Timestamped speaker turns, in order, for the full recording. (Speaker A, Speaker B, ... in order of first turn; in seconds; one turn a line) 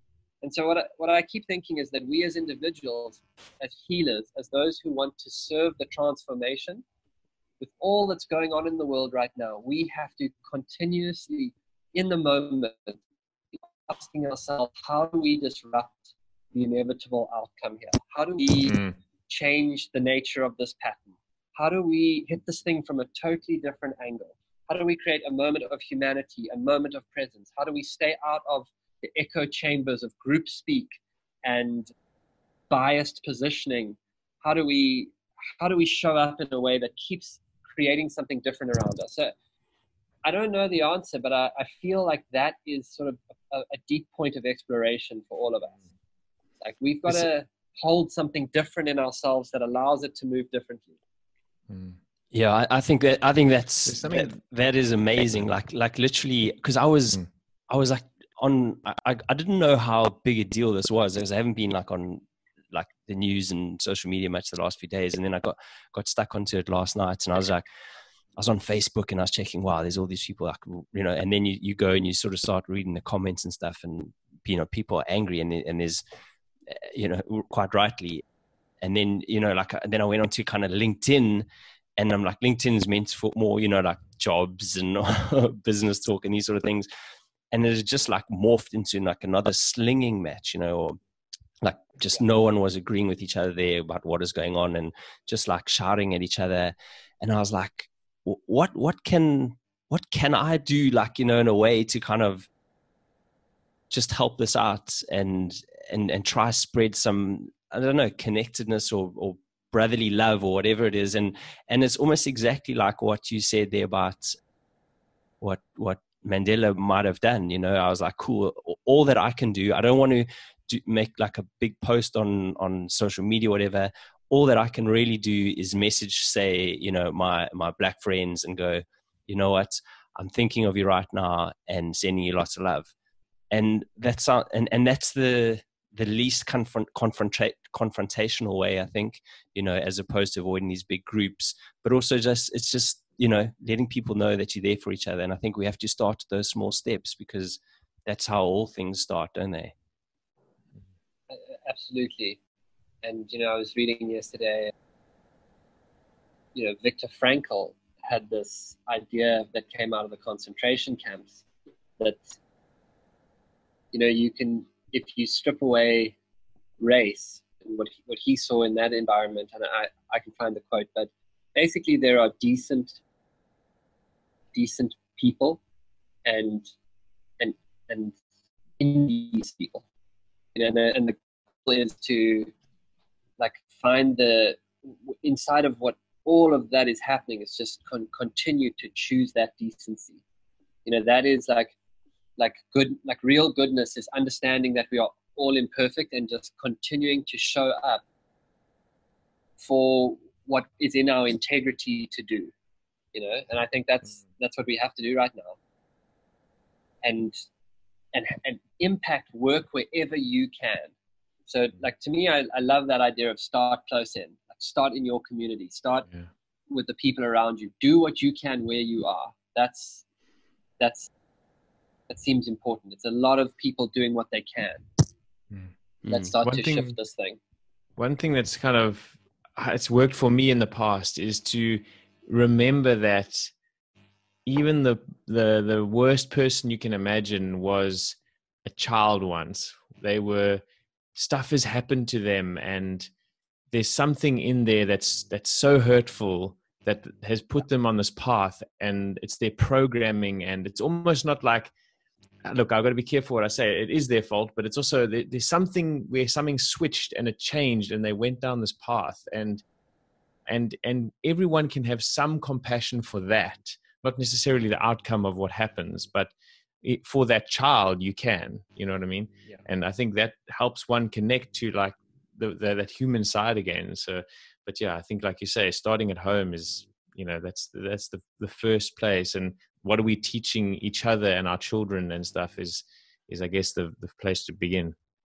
Speaker A: 0.4-6.8
Speaker A: 7.6-13.0
Speaker A: 13.9-30.9
Speaker B: 18.7-18.9
Speaker A: 31.4-31.9
Speaker A: 32.7-39.3
Speaker A: 40.2-45.8
Speaker A: 46.6-51.0
Speaker B: 51.7-52.0
Speaker C: 52.3-67.6
Speaker B: 53.9-54.3
Speaker C: 68.4-76.0
Speaker C: 76.7-78.2
Speaker C: 78.8-81.4
Speaker C: 82.0-86.9
Speaker C: 87.5-91.0
Speaker C: 91.6-102.5
Speaker C: 103.9-114.4
Speaker C: 115.4-132.9
Speaker C: 133.5-149.7
Speaker A: 151.3-152.4
Speaker A: 153.0-154.7
Speaker A: 156.5-161.4
Speaker A: 162.0-162.3
Speaker A: 163.9-166.2
Speaker A: 166.8-173.0
Speaker A: 174.5-175.6
Speaker A: 176.2-176.7
Speaker A: 177.4-178.2
Speaker A: 178.8-179.8
Speaker A: 180.5-182.5
Speaker A: 183.4-190.2
Speaker A: 190.8-191.7
Speaker A: 192.4-198.0
Speaker A: 199.6-202.5
Speaker A: 203.1-205.6
Speaker A: 207.0-207.4
Speaker A: 208.1-210.9
Speaker A: 211.5-216.1
Speaker A: 216.7-220.0
Speaker A: 220.8-221.1
Speaker A: 222.1-224.8
Speaker C: 226.0-226.3
Speaker A: 226.1-227.4
Speaker B: 226.4-226.9
Speaker B: 228.0-233.5
Speaker B: 234.4-240.6
Speaker B: 241.1-243.1
Speaker B: 243.7-251.7
Speaker B: 252.4-259.6
Speaker B: 260.5-266.3
Speaker B: 266.8-284.9